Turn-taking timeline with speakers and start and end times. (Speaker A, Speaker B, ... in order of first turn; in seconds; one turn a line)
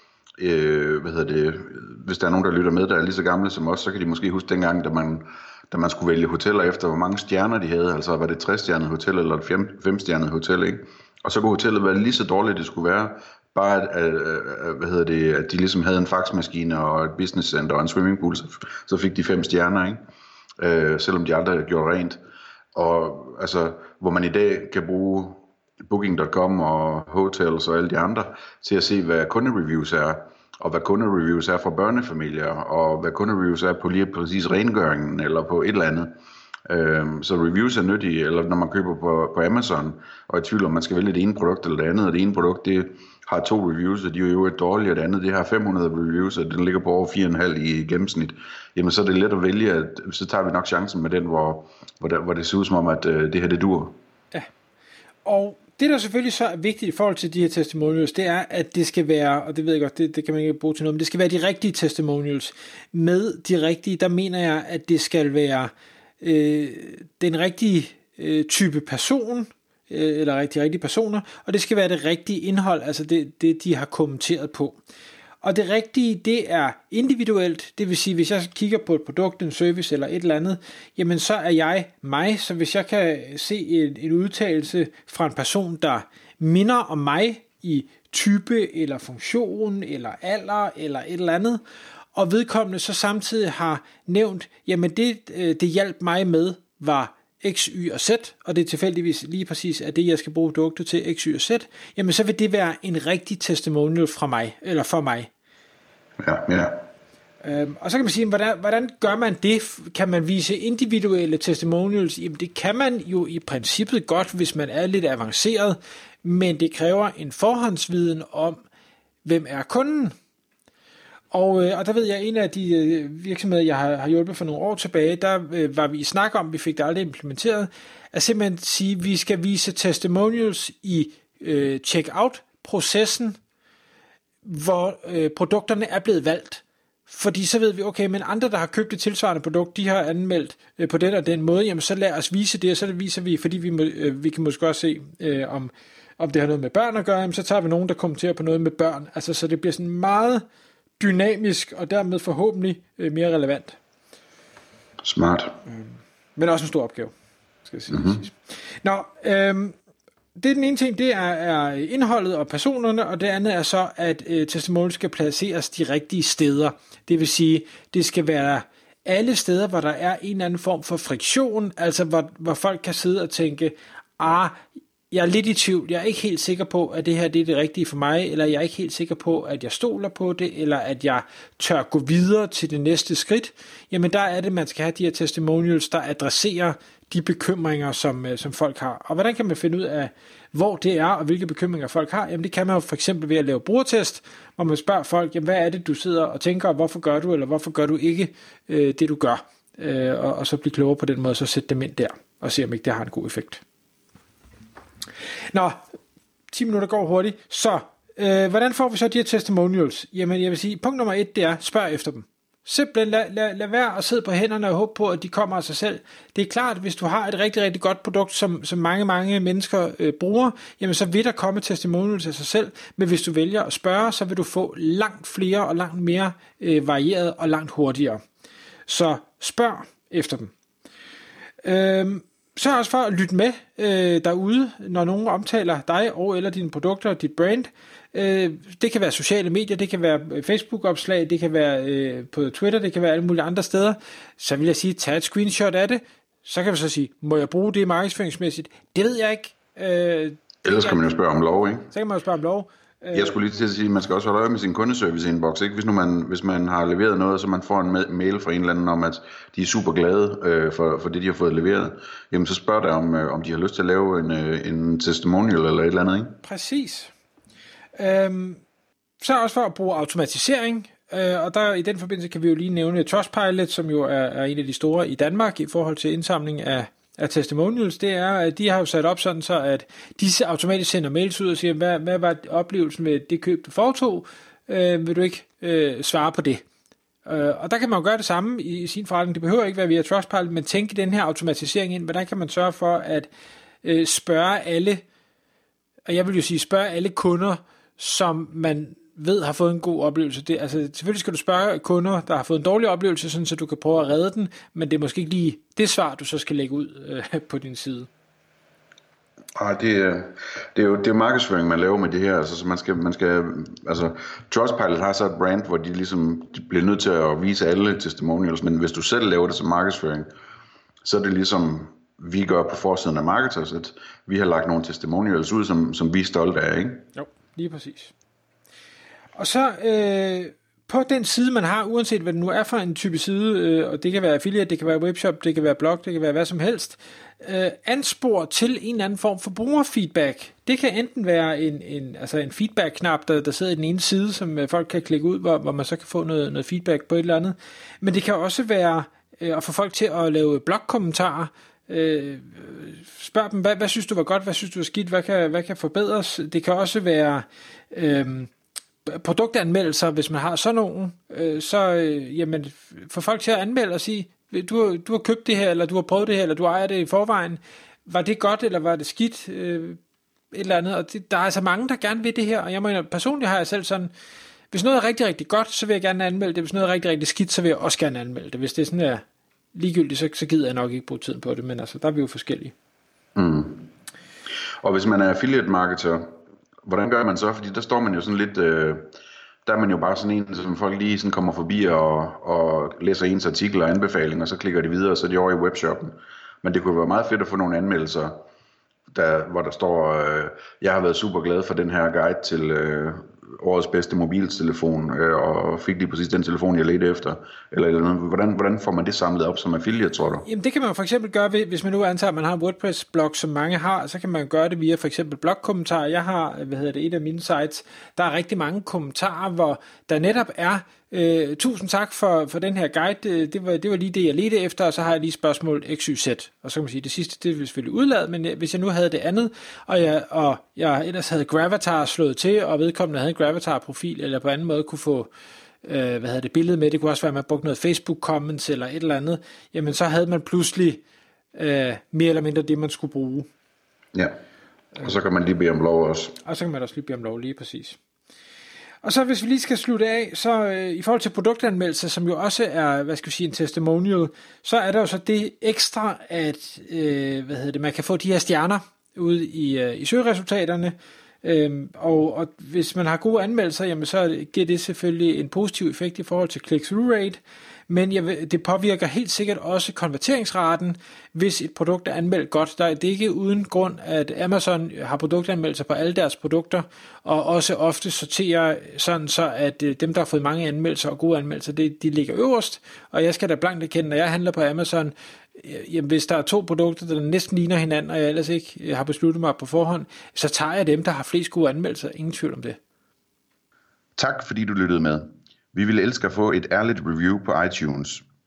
Speaker A: 0.4-20.0
Speaker A: 20.6-22.2
Speaker A: 22.8-36.1
Speaker A: 36.7-54.0
Speaker B: 55.2-74.8
Speaker B: 75.4-91.6
Speaker B: 92.1-105.3
Speaker A: 106.2-106.8
Speaker B: 107.4-118.6
Speaker B: 119.2-120.1
Speaker B: 121.3-133.3
Speaker B: 134.4-150.4
Speaker B: 151.0-153.8
Speaker A: 155.0-155.6
Speaker B: 155.7-157.1
Speaker B: 157.6-159.7
Speaker A: 157.9-158.2
Speaker B: 160.3-174.6
Speaker B: 175.1-203.6
Speaker B: 205.5-205.8
Speaker B: 206.5-228.2
Speaker B: 228.9-230.5
Speaker B: 231.6-251.1
Speaker A: 250.7-251.9
Speaker B: 251.9-253.4
Speaker A: 253.1-266.4
Speaker B: 266.4-267.1
Speaker B: 268.0-268.6
Speaker B: 269.2-286.6
Speaker B: 287.2-293.3
Speaker B: 293.8-295.0
Speaker B: 296.1-308.1
Speaker A: 309.6-320.3
Speaker A: 321.0-327.1
Speaker B: 327.2-328.1
Speaker B: 329.4-358.5
Speaker B: 359.1-370.0
Speaker B: 370.5-374.1
Speaker B: 374.7-379.2
Speaker B: 379.7-382.7
Speaker A: 383.4-383.9
Speaker A: 384.8-386.3
Speaker A: 386.9-389.1
Speaker A: 389.7-398.4
Speaker A: 399.1-410.4
Speaker B: 410.4-435.3
Speaker B: 435.8-441.0
Speaker B: 441.6-443.5
Speaker A: 444.1-444.4
Speaker A: 445.0-446.4
Speaker B: 446.4-448.0
Speaker B: 449.0-492.8
Speaker A: 494.2-498.2